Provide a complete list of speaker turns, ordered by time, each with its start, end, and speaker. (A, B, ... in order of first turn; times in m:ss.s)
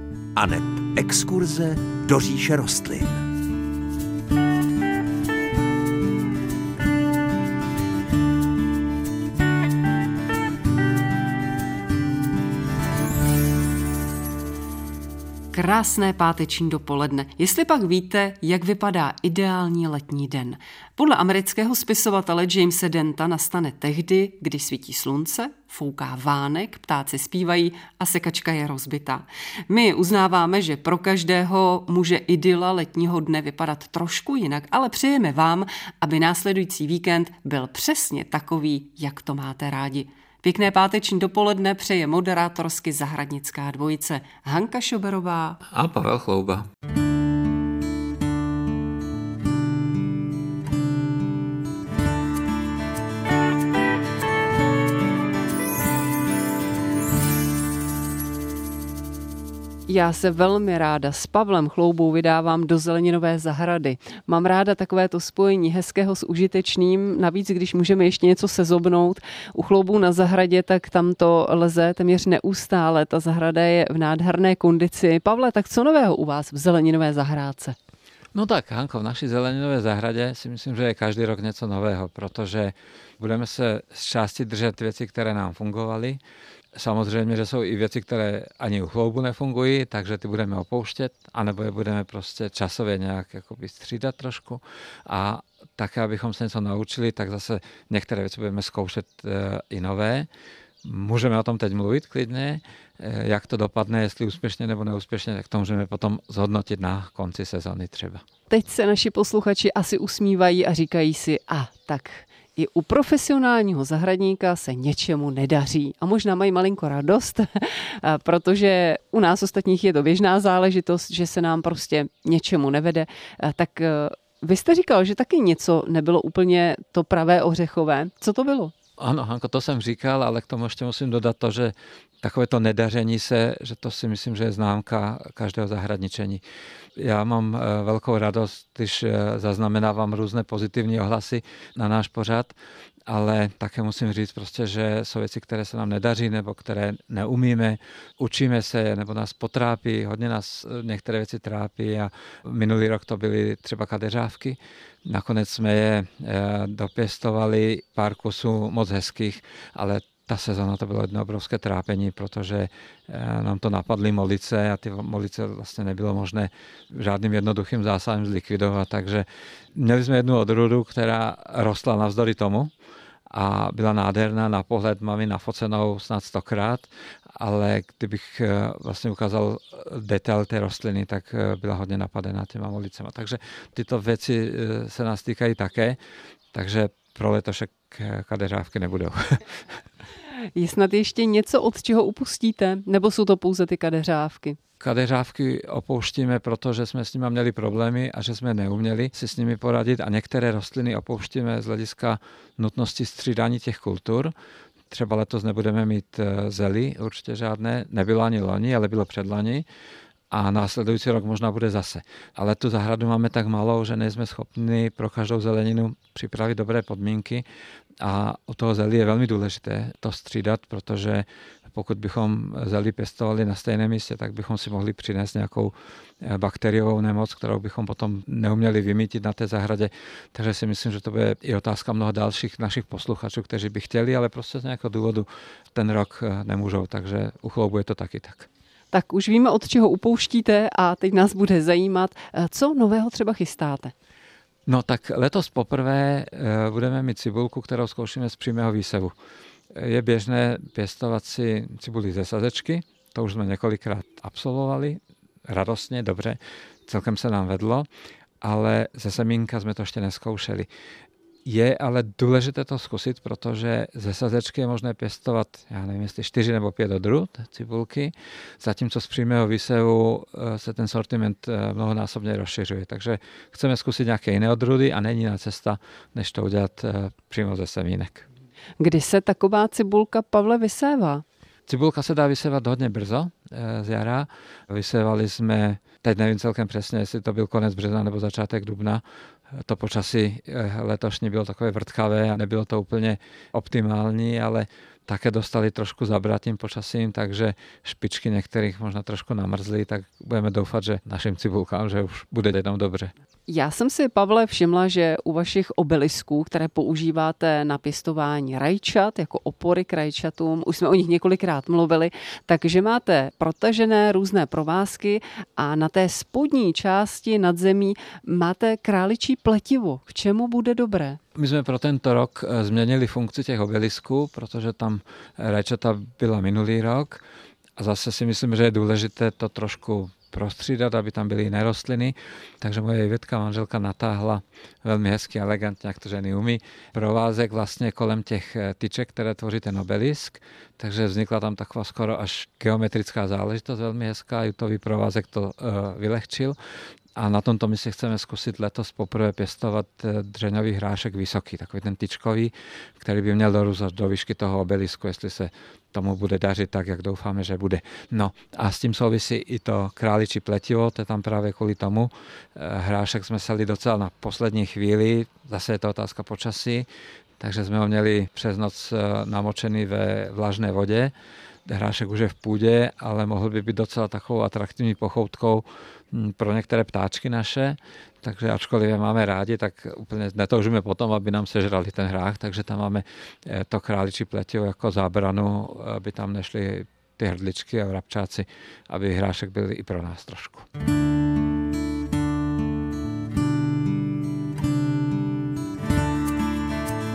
0:00.4-0:03.2 A
0:15.5-0:45.6 B
0:45.7-0:46.7 C
0:59.9-1:17.8 B
1:18.3-1:26.2 C
1:26.7-1:40.3 C
1:40.8-1:48.2 C
1:48.5-2:08.7 B
2:09.0-2:16.4 C
2:17.0-2:22.5 C
2:23.1-2:52.7 C
2:53.3-3:06.0 C
3:06.5-3:09.6 C
3:10.6-3:14.6 B
3:14.8-3:24.3 C
3:24.9-3:29.7 C
3:30.3-3:37.4 C
3:38.0-3:58.5 C
3:58.9-4:03.9 B
4:04.7-4:09.1 C
4:09.7-4:17.9 C
4:18.4-4:20.7 C
4:21.4-4:38.2 C
4:38.8-4:41.2 B
4:41.7-5:03.1 C
5:03.5-5:21.2 B
5:21.4-5:27.2 C
5:27.8-5:46.6 C
5:47.2-6:06.9 C
6:07.4-6:11.1 C
6:11.7-6:30.7 C